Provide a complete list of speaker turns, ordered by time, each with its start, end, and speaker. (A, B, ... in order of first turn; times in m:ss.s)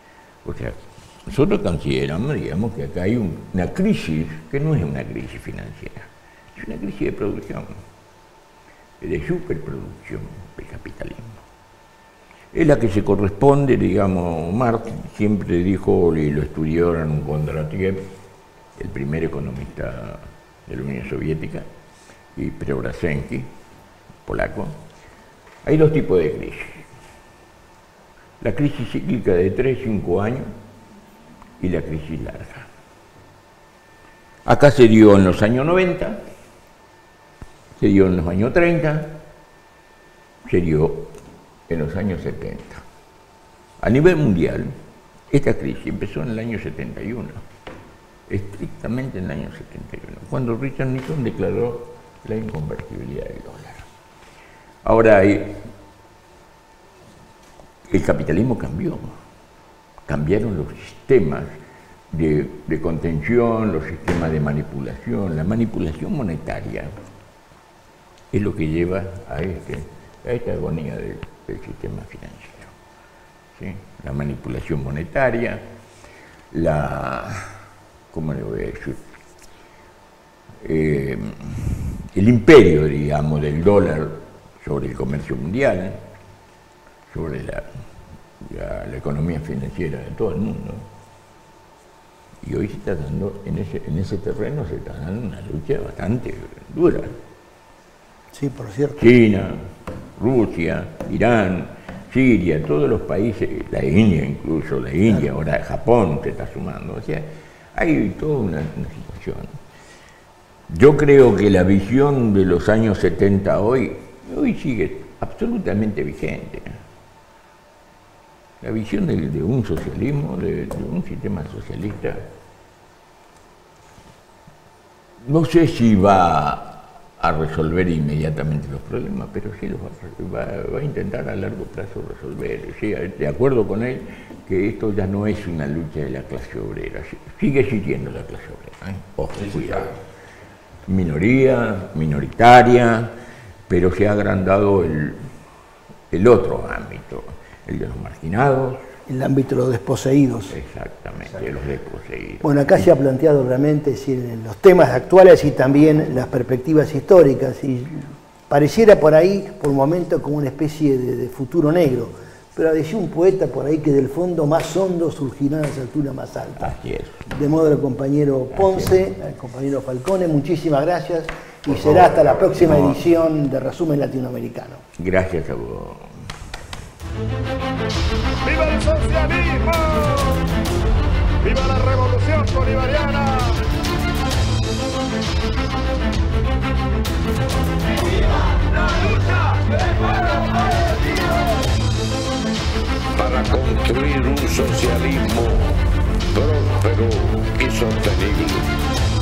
0:00.4-0:07.8 A
0:09.0-0:11.4 A
0:12.5-0:18.0 A
0:18.8-0:21.7 A
0:22.4-0:23.5 A
0:24.2-0:24.7 A
0:25.6-0:26.9 A
0:28.4-0:30.5 A
0:31.6-0:32.7 A
0:34.4-0:36.2 A
0:37.8-0:39.2 A
0:40.5-0:41.1 A
0:41.7-0:42.8 A
0:43.8-0:44.7 A
0:45.3-0:47.4 A
0:48.3-0:53.8 A
0:54.8-0:55.6 A
0:57.9-0:59.1 A
1:00.1-1:01.5 A
1:02.1-1:06.9 A
1:08.3-1:12.7 A
1:13.6-1:15.6 A
1:16.5-1:17.5 A
1:18.1-1:19.0 A
1:20.6-1:26.0 A
1:27.1-1:27.7 A
1:28.4-1:30.9 A
1:32.4-1:37.2 A
1:38.3-1:39.1 B
1:39.0-1:49.5 A
1:50.7-1:56.8 A
1:58.6-2:02.2 A
2:05.2-2:20.0 A
2:20.9-2:23.1 A
2:23.7-2:25.2 A
2:26.1-2:28.8 A
2:29.1-2:30.6 B
2:30.5-2:32.5 A
2:32.4-2:46.7 B
2:46.6-2:47.3 A
2:47.3-2:54.8 B
2:48.5-2:49.0 A
2:51.7-2:53.0 A
2:55.0-2:56.1 A
2:58.4-3:00.5 C
3:01.4-3:03.6 C
3:13.1-3:18.7 D